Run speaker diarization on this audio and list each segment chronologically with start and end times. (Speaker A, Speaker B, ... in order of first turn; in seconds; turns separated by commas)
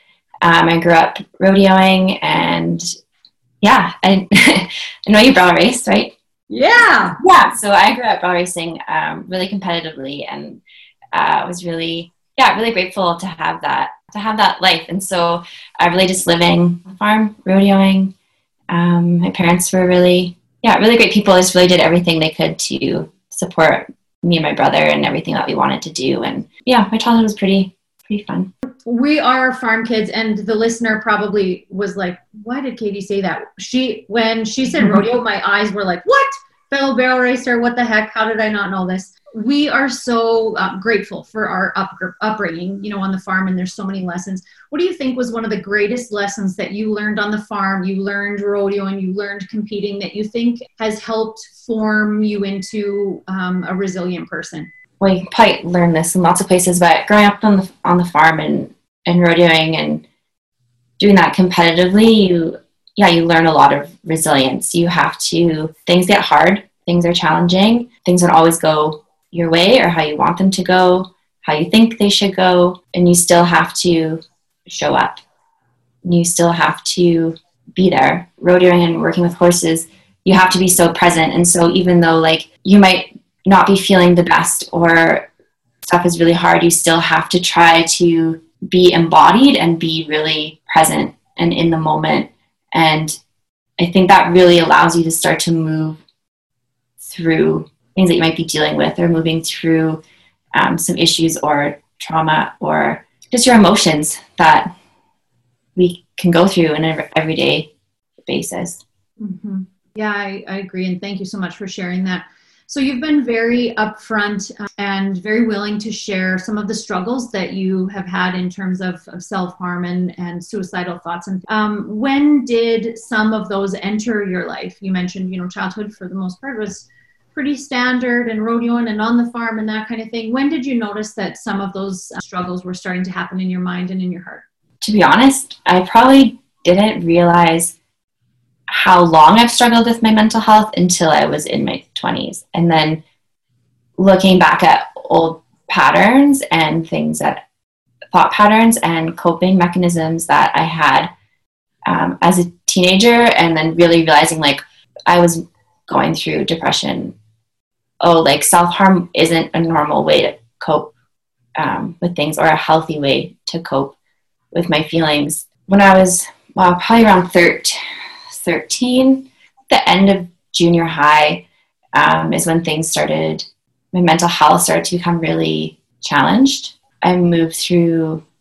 Speaker A: 0.4-2.9, Speaker A: 3.6-6.1, Speaker B: 6.5-7.2, Speaker A: 7.2-10.6, Speaker A: 11.1-18.1, Speaker A: 18.7-28.5, Speaker B: 28.8-54.7, Speaker A: 55.0-60.0, Speaker A: 61.0-75.2, Speaker A: 76.0-85.3, Speaker A: 85.8-93.2, Speaker A: 93.8-96.0, Speaker A: 97.0-100.0, Speaker A: 100.5-104.7, Speaker A: 105.8-107.7, Speaker A: 108.2-108.8, Speaker B: 109.2-134.4, Speaker A: 134.8-137.8, Speaker A: 138.7-143.0, Speaker A: 144.0-147.4, Speaker A: 148.1-151.1, Speaker A: 151.8-157.1, Speaker A: 158.0-160.9, Speaker A: 161.6-163.9, Speaker A: 164.5-178.2